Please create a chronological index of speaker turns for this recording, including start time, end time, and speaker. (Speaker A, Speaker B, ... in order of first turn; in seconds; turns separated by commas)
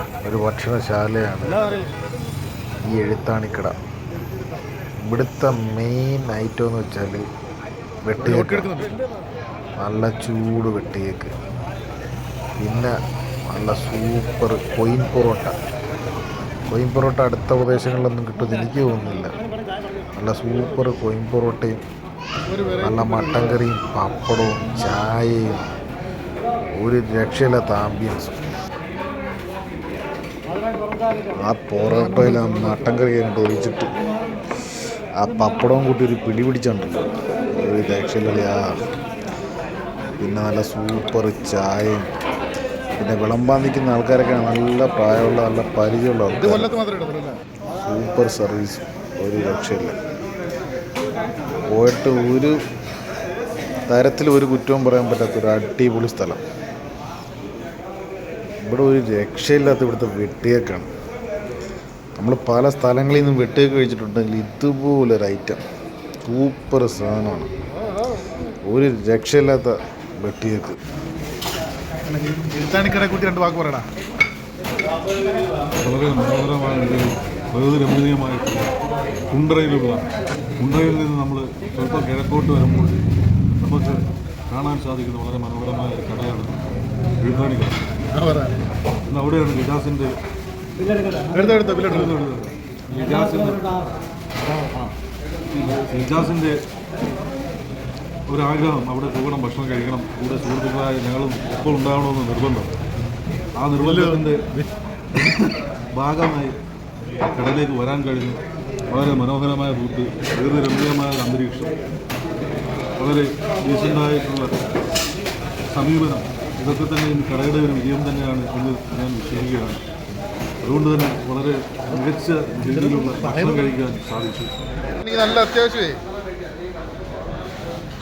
Speaker A: 0.2-1.9, Speaker A: 2.9-3.7, Speaker A: 5.1-7.3, Speaker A: 8.0-8.8, Speaker B: 8.2-9.0, Speaker A: 9.8-11.3, Speaker A: 12.6-12.9, Speaker A: 13.5-15.5, Speaker A: 16.7-19.4, Speaker A: 20.1-21.8, Speaker B: 22.5-23.6, Speaker A: 22.8-25.7, Speaker A: 26.8-28.4, Speaker A: 31.4-33.9, Speaker B: 31.9-32.8, Speaker A: 35.2-38.6, Speaker A: 40.2-42.1, Speaker A: 43.0-46.8, Speaker B: 46.4-47.4, Speaker A: 47.8-50.0, Speaker A: 51.7-52.5, Speaker A: 53.9-56.4, Speaker A: 58.7-60.9, Speaker A: 62.2-65.6, Speaker A: 66.2-67.5, Speaker A: 68.7-70.8, Speaker B: 72.1-73.9, Speaker C: 75.8-78.7, Speaker C: 79.3-80.1, Speaker C: 80.6-83.0, Speaker C: 83.6-86.6, Speaker C: 87.2-87.8, Speaker B: 88.1-88.6, Speaker C: 89.1-90.1, Speaker B: 91.3-92.2, Speaker C: 91.8-93.7, Speaker C: 95.6-96.6, Speaker C: 98.3-102.7, Speaker C: 103.6-104.5, Speaker B: 103.8-104.7, Speaker C: 105.1-106.5, Speaker C: 107.2-111.7, Speaker C: 113.0-114.5, Speaker C: 115.7-119.8, Speaker C: 120.6-124.5, Speaker B: 124.9-126.0